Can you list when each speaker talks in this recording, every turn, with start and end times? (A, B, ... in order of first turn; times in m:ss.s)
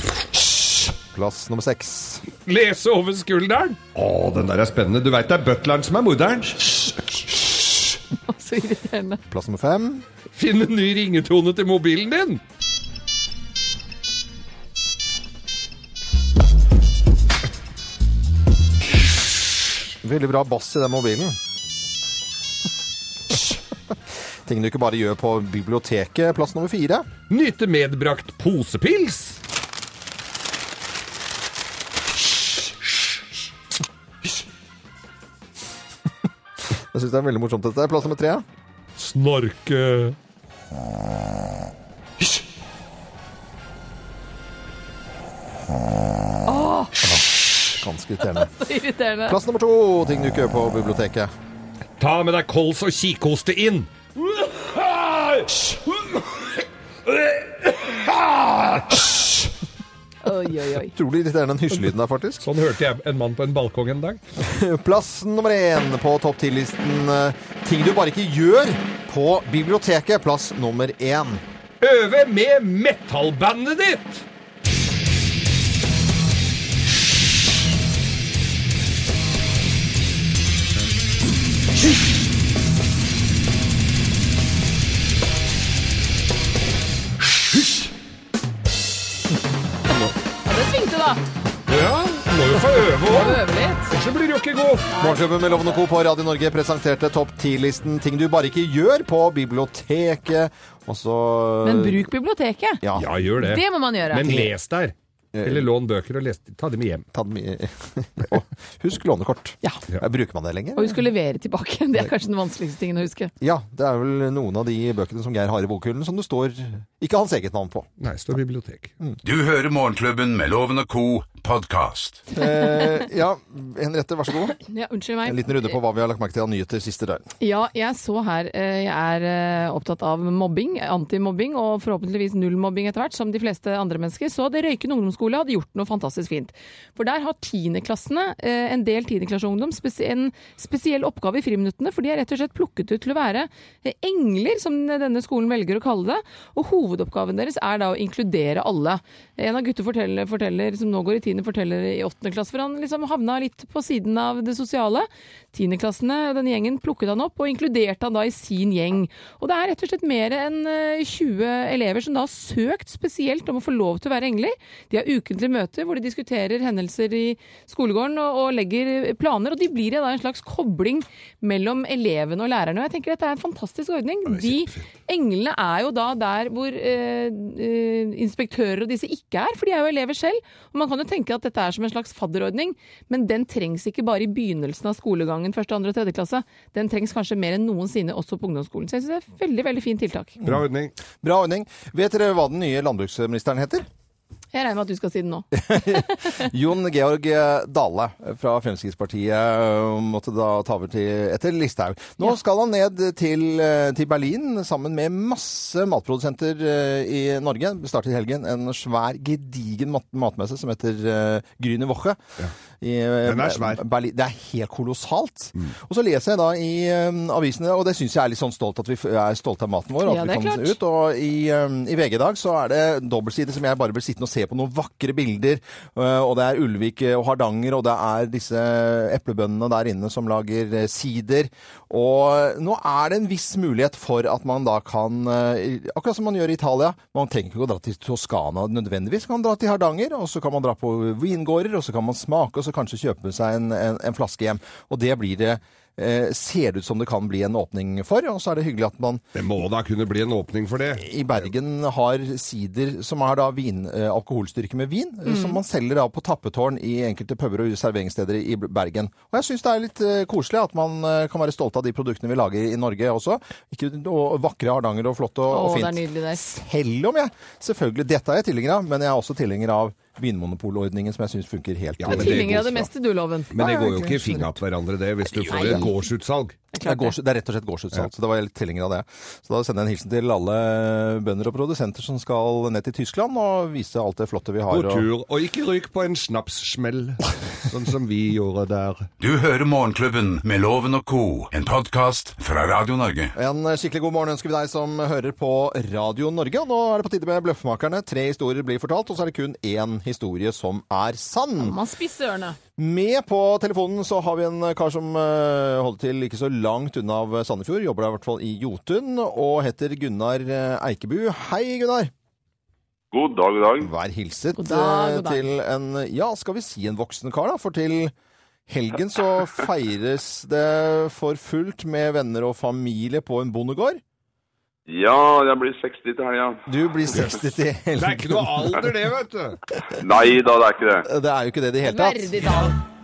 0:01.1-0:02.2 A
0:02.4-0:07.2 B
0:08.3-0:09.2 C
0:09.3-0:10.0 A
0:10.4-0:12.4 B
0:20.0-0:21.4 A
0:24.4-0:27.1 A
0:27.3-0:29.4 B
0:36.9-0:38.4 A
0:39.0-0:40.2 B
0:46.5-0:47.0 C
0:47.0-0:48.5 A
0:48.2-0:49.4 C
0:49.2-0:51.3 A
0:52.0-0:59.4 B
1:00.2-1:00.9 C
1:00.8-1:02.5 A
1:02.4-1:04.2 B
1:04.4-1:11.4 A
1:11.8-1:14.2 B
1:30.4-1:31.2 C
1:31.7-1:34.9 B
1:33.0-1:33.9 C
1:34.9-1:35.8 C
1:35.0-1:42.1 A
1:41.6-1:42.8 C
1:42.8-1:43.1 A
1:42.9-1:47.0 B
1:43.4-1:44.5 C
1:45.3-1:45.7 A
1:47.1-1:51.0 A
1:50.8-1:53.3 C
1:53.4-1:57.9 A
1:58.0-1:58.9 B
1:59.2-2:02.2 D
2:02.3-2:04.6 A
2:04.6-2:05.7 C
2:05.2-2:07.3 A
2:07.4-3:10.4 C
2:54.3-2:54.9 B
3:10.4-3:10.9 B
3:11.2-3:13.8 A
3:14.5-3:16.4 C
3:15.5-3:32.2 A
3:32.8-4:09.2 A
3:33.2-3:33.8 B
3:40.0-3:40.8 C
4:09.3-4:11.1 B
4:11.0-4:32.8 A
4:15.3-4:15.6 C
4:25.5-4:26.4 C
4:32.0-4:32.8 B
4:32.1-4:33.5 C
4:33.5-4:36.6 B
4:33.5-4:34.6 A
4:35.4-4:35.9 A
4:35.5-4:36.0 C
4:36.7-4:37.2 C
4:36.8-4:45.1 A
4:44.7-4:49.1 B
4:49.2-4:53.3 D
4:53.4-5:01.8 A
5:01.6-5:02.6 C
5:02.8-5:12.1 A
5:13.1-5:13.9 E
5:13.8-5:18.1 A
5:14.6-5:15.5 C
5:18.7-5:24.0 A
5:24.9-5:26.7 E
5:26.7-5:28.7 A
5:27.1-5:27.4 B
5:28.0-5:29.6 B
5:30.0-5:31.1 E
5:31.0-5:32.7 A
5:31.8-5:32.8 C